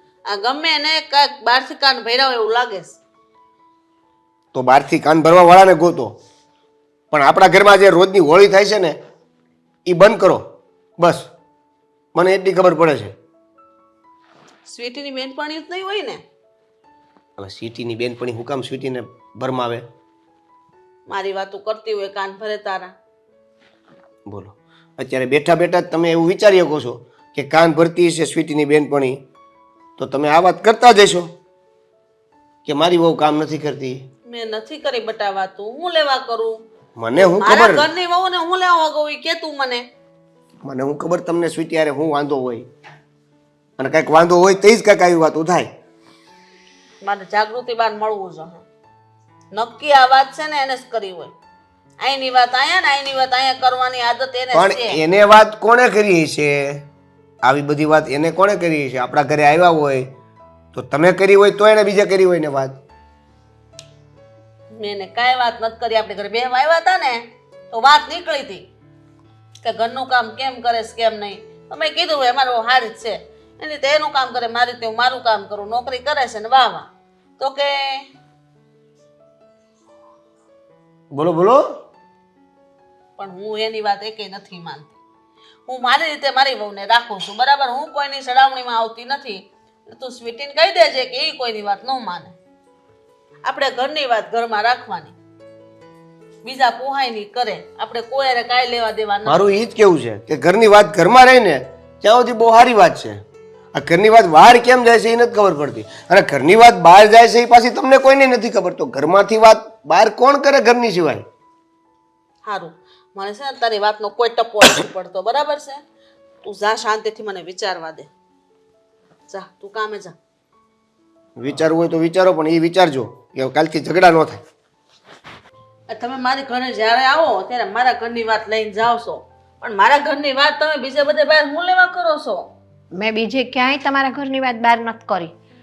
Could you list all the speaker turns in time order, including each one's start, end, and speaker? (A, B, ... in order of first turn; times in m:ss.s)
0:00.3-0:03.0 A
0:04.5-0:06.1 B
0:07.1-0:09.0 B
0:09.9-0:10.4 B
0:11.0-0:11.3 B
0:12.2-0:13.1 B
0:14.7-0:16.2 A
0:17.4-0:19.8 B
0:21.1-0:22.9 A
0:24.3-0:29.2 B
0:30.0-0:31.3 B
0:32.7-0:34.0 B
0:34.3-0:36.6 A
0:37.0-0:37.9 B
0:37.1-0:39.9 A
0:40.6-0:42.7 B
0:43.8-0:45.7 B
0:47.0-0:48.6 A
0:49.5-0:51.3 A
0:52.0-0:55.0 A
0:54.5-0:56.8 B
0:57.4-1:00.1 B
1:00.7-1:02.8 B
1:04.7-1:08.6 A
1:09.6-1:18.1 A
1:21.1-1:21.6 B
1:23.2-1:25.0 A
1:25.7-1:32.4 A
1:33.4-1:35.1 A
1:36.4-1:39.4 A
1:39.3-1:43.2 B
1:43.8-1:51.2 B
1:52.4-1:55.8 A
1:56.4-1:58.1 A
1:59.3-2:00.2 A
2:01.4-2:04.4 B
2:05.9-2:12.5 A
2:13.0-2:15.3 C